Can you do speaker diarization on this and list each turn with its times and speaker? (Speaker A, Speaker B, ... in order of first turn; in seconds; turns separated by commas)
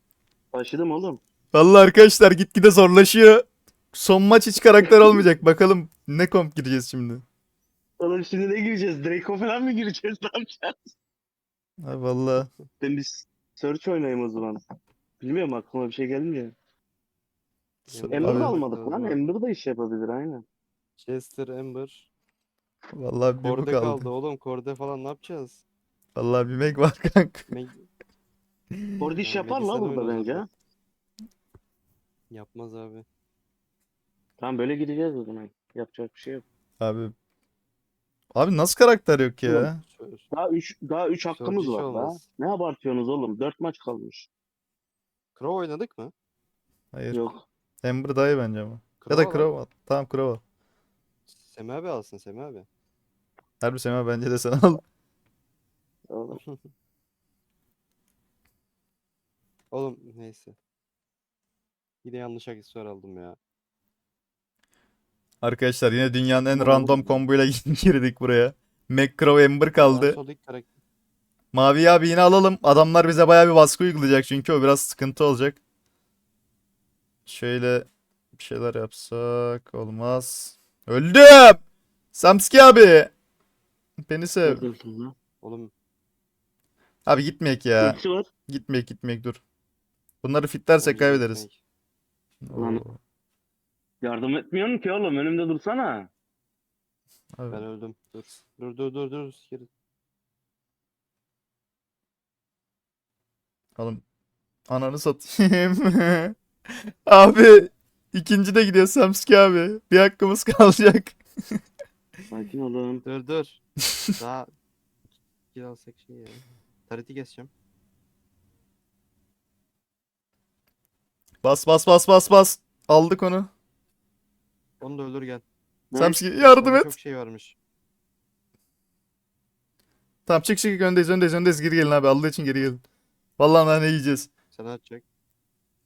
Speaker A: 0.5-1.2, Speaker B: 1.5-7.2, Speaker A: 4.8-5.2, Speaker A: 8.0-10.9, Speaker B: 11.8-12.5, Speaker A: 12.8-14.6, Speaker A: 15.2-16.5, Speaker C: 17.9-19.2, Speaker B: 17.9-18.6, Speaker A: 18.1-20.4, Speaker C: 21.0-22.1, Speaker B: 22.9-24.1, Speaker C: 23.4-25.6, Speaker B: 26.1-27.5, Speaker C: 27.5-27.9, Speaker A: 29.0-30.5, Speaker C: 29.2-30.5, Speaker C: 32.3-33.0, Speaker A: 34.4-36.4, Speaker B: 36.8-37.1, Speaker B: 38.3-39.8, Speaker C: 39.8-40.2, Speaker A: 40.3-44.3, Speaker C: 41.3-42.2, Speaker C: 45.4-46.1, Speaker B: 46.9-47.2, Speaker A: 47.1-47.4, Speaker B: 47.8-50.4, Speaker C: 49.0-49.5, Speaker C: 51.3-52.7, Speaker B: 53.6-54.8, Speaker A: 56.1-56.4, Speaker C: 56.3-56.7, Speaker C: 59.7-60.5, Speaker C: 62.0-63.4, Speaker B: 65.4-70.2, Speaker C: 66.5-67.2, Speaker C: 69.8-70.7, Speaker B: 71.5-75.6, Speaker B: 77.2-81.6, Speaker B: 82.1-83.1, Speaker B: 84.0-84.7, Speaker A: 84.4-85.1, Speaker C: 85.4-85.7, Speaker B: 87.0-89.4, Speaker A: 87.8-88.3, Speaker B: 90.2-91.4, Speaker C: 90.8-91.6, Speaker B: 92.4-93.0, Speaker A: 92.5-92.8, Speaker A: 94.0-96.1, Speaker B: 97.3-97.7, Speaker C: 97.5-99.7, Speaker B: 103.8-104.0, Speaker B: 104.7-106.3, Speaker B: 107.0-111.6, Speaker A: 112.3-113.0, Speaker C: 113.0-113.6, Speaker C: 114.2-114.5, Speaker C: 115.5-117.5, Speaker B: 121.4-123.5, Speaker C: 124.8-125.4, Speaker A: 125.9-126.2, Speaker B: 126.0-126.9, Speaker C: 126.3-127.5, Speaker B: 130.2-132.8, Speaker B: 133.4-134.3, Speaker C: 134.5-135.0